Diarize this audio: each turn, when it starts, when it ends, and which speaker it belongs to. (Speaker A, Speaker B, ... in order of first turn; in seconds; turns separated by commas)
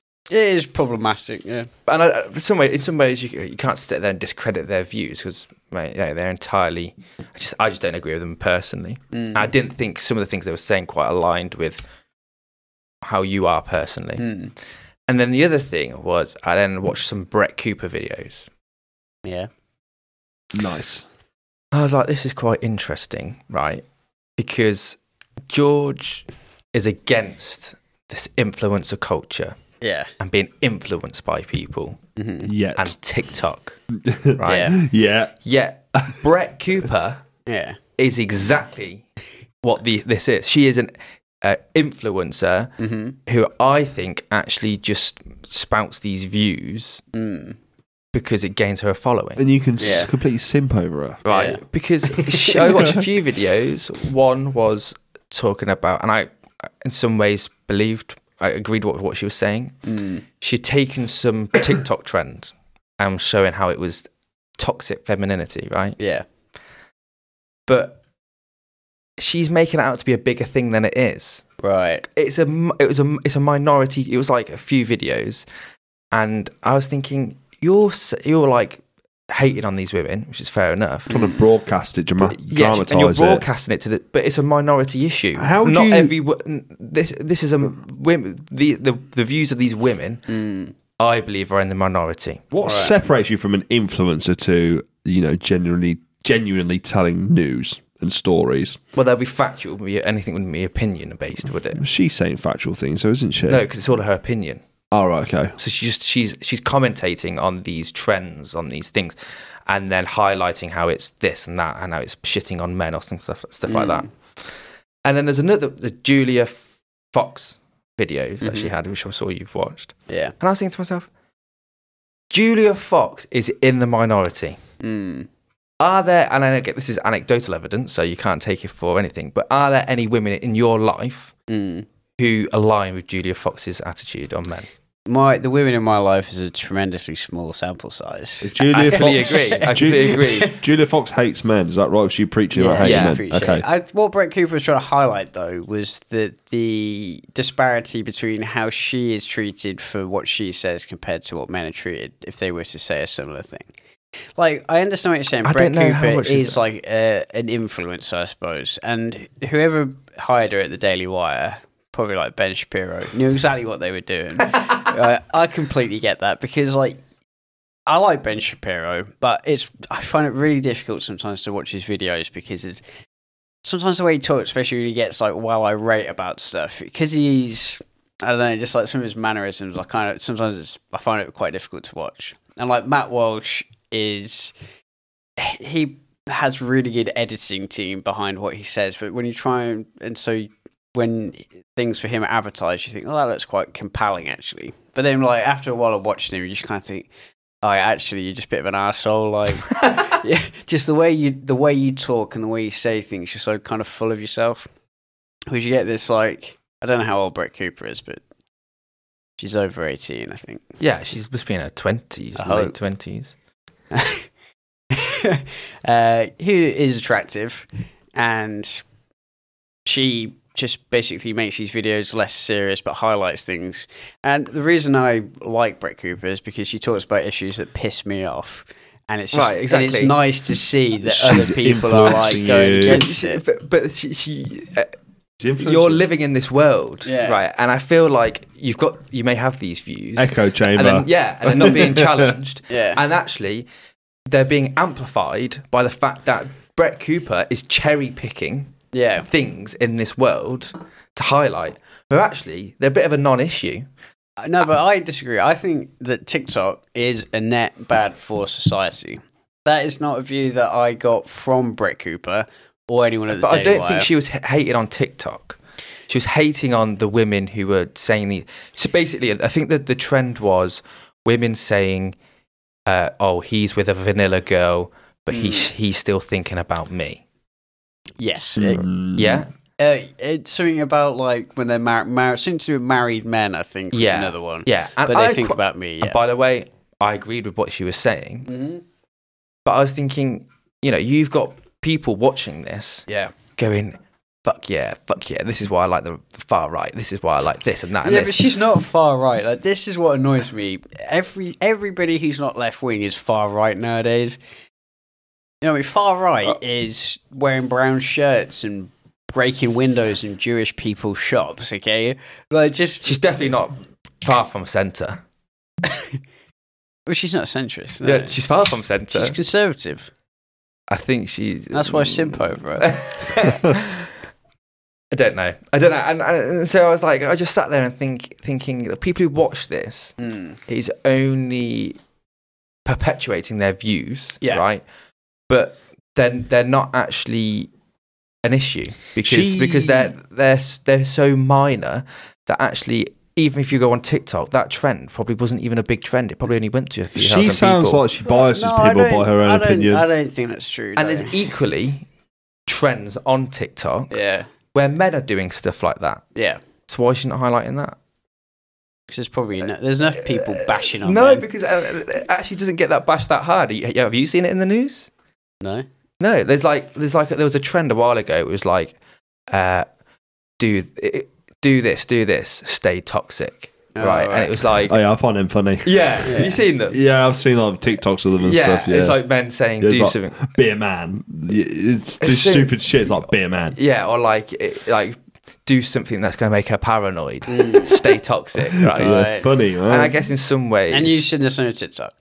Speaker A: 0.3-1.7, Speaker B: 1.9-11.8, Speaker A: 9.1-9.5, Speaker B: 13.0-14.3, Speaker A: 14.2-14.5, Speaker B: 15.1-18.5, Speaker A: 19.2-19.5, Speaker C: 20.5-21.1, Speaker B: 21.7-23.8, Speaker B: 24.4-25.0, Speaker B: 25.5-29.6, Speaker A: 29.8-30.1, Speaker B: 30.2-32.0, Speaker A: 32.2-32.5, Speaker C: 32.4-33.0, Speaker B: 32.8-33.8, Speaker C: 34.0-35.3, Speaker B: 34.4-34.8, Speaker A: 34.5-34.8, Speaker B: 35.4-37.2, Speaker A: 37.5-37.8, Speaker B: 38.0-39.1, Speaker B: 39.6-42.7, Speaker A: 42.8-43.2, Speaker B: 43.3-47.0, Speaker A: 47.1-47.6, Speaker B: 48.1-49.4, Speaker C: 49.4-51.2, Speaker A: 49.8-50.1, Speaker B: 51.2-59.8, Speaker A: 51.3-51.6, Speaker C: 52.2-53.0, Speaker A: 59.9-60.2, Speaker B: 60.4-64.1, Speaker B: 64.6-66.0, Speaker A: 66.0-66.2, Speaker B: 67.7-68.0, Speaker B: 69.2-71.5, Speaker A: 71.6-72.0, Speaker B: 72.0-75.5, Speaker B: 76.1-81.1, Speaker A: 81.1-81.4, Speaker C: 81.1-83.5, Speaker B: 82.2-90.2, Speaker C: 85.4-86.1, Speaker A: 90.3-90.8, Speaker B: 91.0-92.4, Speaker C: 92.5-98.8, Speaker A: 92.6-92.9, Speaker B: 99.0-101.8, Speaker C: 101.8-103.6, Speaker B: 103.5-104.6, Speaker C: 104.9-105.6, Speaker B: 105.6-114.5, Speaker A: 113.7-114.1, Speaker B: 115.0-121.1, Speaker A: 118.4-118.7, Speaker A: 120.1-120.3, Speaker B: 122.3-124.6, Speaker A: 124.8-125.3, Speaker B: 125.8-131.3, Speaker A: 131.5-131.9, Speaker B: 132.2-134.7, Speaker A: 135.1-140.6, Speaker C: 138.4-143.6, Speaker B: 138.6-140.5, Speaker A: 142.5-153.7, Speaker B: 142.8-143.2, Speaker A: 154.4-167.0, Speaker B: 155.4-156.6, Speaker A: 167.9-172.8, Speaker A: 173.6-184.5, Speaker A: 185.4-197.1, Speaker A: 197.6-204.7, Speaker A: 205.5-208.2, Speaker A: 209.4-210.6, Speaker B: 210.8-213.3, Speaker A: 212.4-212.8, Speaker A: 213.9-214.3, Speaker A: 214.9-218.8, Speaker A: 219.9-233.4, Speaker B: 229.3-230.2, Speaker C: 231.0-233.0, Speaker B: 232.8-234.9, Speaker C: 235.4-236.0, Speaker B: 235.6-243.7, Speaker A: 237.1-237.4, Speaker C: 240.2-242.3, Speaker A: 242.7-243.0, Speaker B: 244.3-248.8, Speaker A: 248.9-249.3, Speaker B: 249.3-253.9, Speaker A: 254.4-264.1, Speaker B: 263.3-272.2, Speaker B: 272.9-277.2, Speaker A: 275.3-275.7, Speaker A: 278.2-278.8, Speaker C: 278.6-279.5, Speaker B: 279.2-279.5, Speaker A: 279.8-286.2, Speaker B: 283.9-288.5, Speaker A: 288.5-288.8, Speaker B: 289.6-293.1, Speaker A: 293.1-293.3, Speaker B: 293.6-298.5, Speaker A: 298.0-304.4, Speaker A: 305.6-313.1, Speaker B: 313.0-315.2, Speaker A: 317.1-318.4, Speaker B: 318.0-319.4, Speaker A: 319.1-320.1, Speaker B: 320.9-324.1, Speaker A: 321.7-323.6, Speaker B: 325.1-330.2, Speaker A: 330.2-330.6, Speaker B: 330.7-332.0, Speaker B: 332.9-334.9, Speaker B: 335.5-337.7, Speaker B: 338.4-348.0, Speaker C: 339.2-340.1, Speaker C: 347.2-350.1, Speaker A: 348.2-351.4, Speaker B: 351.0-352.1, Speaker B: 352.7-354.1, Speaker A: 354.1-354.5, Speaker B: 354.7-356.2, Speaker A: 356.4-356.6, Speaker B: 356.9-358.0, Speaker A: 359.1-361.4, Speaker B: 360.2-365.1, Speaker B: 366.2-369.0, Speaker B: 369.5-369.9, Speaker B: 370.6-375.0, Speaker A: 373.9-374.5, Speaker C: 374.9-379.2, Speaker B: 375.9-377.0, Speaker A: 376.2-376.6, Speaker B: 378.4-380.4, Speaker C: 379.8-383.8, Speaker B: 382.2-382.7, Speaker B: 383.7-389.2, Speaker A: 387.5-388.0, Speaker C: 388.7-390.2, Speaker A: 389.0-389.5, Speaker B: 389.9-391.3, Speaker A: 390.9-392.1